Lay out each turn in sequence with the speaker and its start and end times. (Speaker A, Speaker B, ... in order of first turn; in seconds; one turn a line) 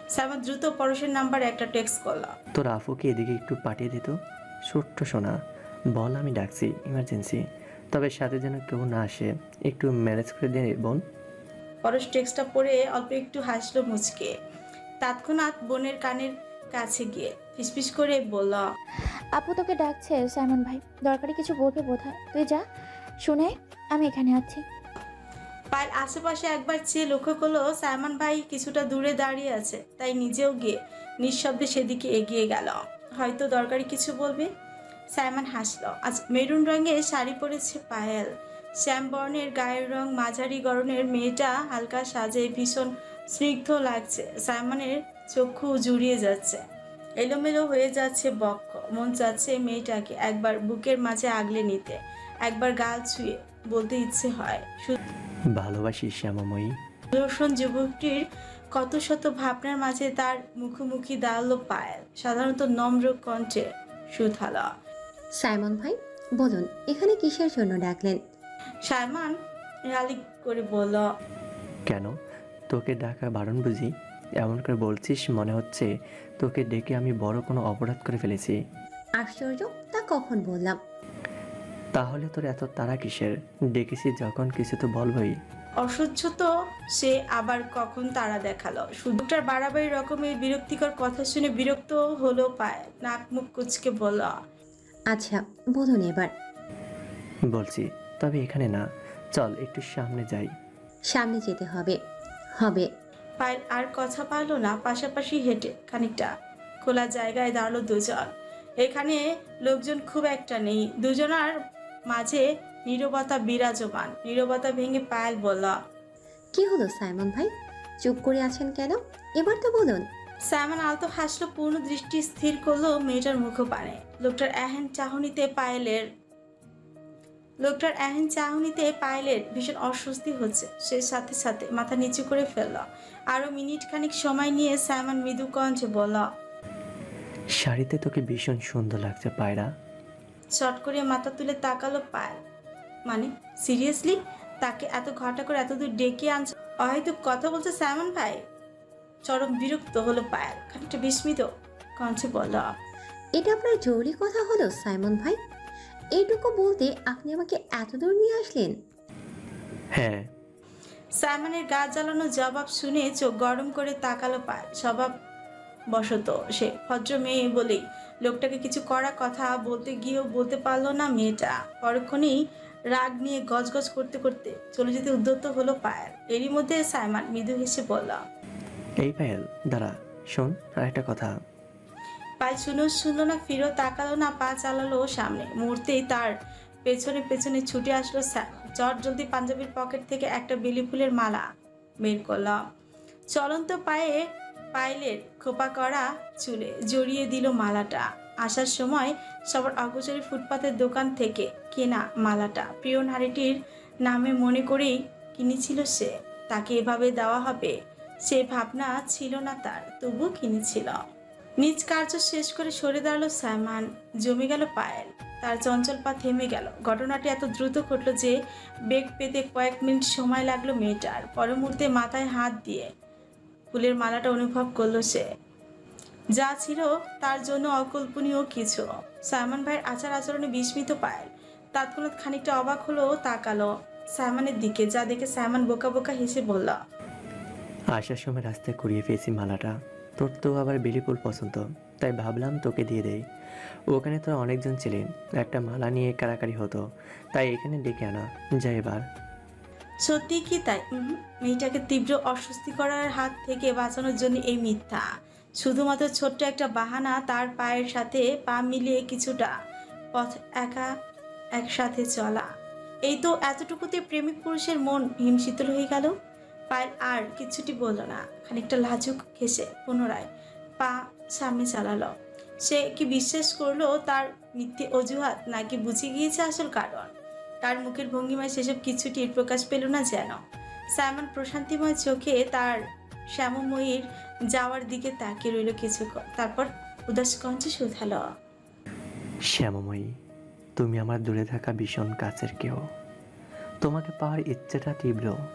Speaker A: 0.1-2.3
Speaker B: 2.5-4.2
Speaker B: 4.7-5.3
Speaker B: 5.9-11.0
Speaker A: 11.8-14.3
Speaker A: 15.0-18.6
Speaker C: 19.3-22.6
Speaker C: 23.2-24.6
Speaker A: 25.7-34.5
Speaker A: 35.1-46.6
Speaker A: 47.2-55.0
Speaker B: 55.5-56.8
Speaker A: 57.1-64.7
Speaker D: 65.4-68.2
Speaker A: 68.8-69.3
Speaker A: 69.9-71.1
Speaker B: 71.9-72.1
Speaker B: 72.7-75.9
Speaker B: 76.4-78.6
Speaker D: 79.2-80.8
Speaker B: 82.0-85.4
Speaker A: 85.8-94.4
Speaker D: 95.1-96.3
Speaker B: 97.5-100.5
Speaker D: 101.1-102.0
Speaker D: 102.6-102.9
Speaker A: 103.4-106.3
Speaker A: 106.8-111.5
Speaker A: 112.1-115.8
Speaker D: 116.5-120.1
Speaker A: 120.5-126.1
Speaker A: 127.6-136.3
Speaker B: 137.6-139.7
Speaker A: 140.6-142.4
Speaker A: 143.1-148.4
Speaker A: 149.2-151.5
Speaker A: 152.0-152.7
Speaker D: 153.4-155.4
Speaker D: 156.2-158.8
Speaker B: 159.9-160.3
Speaker A: 161.2-165.1
Speaker A: 165.9-172.4
Speaker A: 172.9-178.2
Speaker B: 179.0-181.3
Speaker A: 182.4-186.3
Speaker A: 186.8-191.4
Speaker A: 192.0-192.6
Speaker A: 193.3-194.2
Speaker A: 194.7-211.0
Speaker A: 211.6-218.3
Speaker A: 218.9-222.9
Speaker A: 223.7-225.3
Speaker A: 226.3-236.8
Speaker B: 237.9-243.2
Speaker B: 243.9-246.8
Speaker B: 247.3-249.0
Speaker A: 250.1-255.0
Speaker A: 255.6-259.5
Speaker A: 260.1-260.9
Speaker A: 261.6-262.5
Speaker A: 263.1-266.1
Speaker A: 266.7-270.3
Speaker A: 270.8-272.1
Speaker A: 272.6-277.1
Speaker A: 277.6-280.4
Speaker A: 280.9-282.8
Speaker A: 283.3-288.2
Speaker B: 289.5-290.1
Speaker B: 290.8-292.8
Speaker B: 293.8-295.4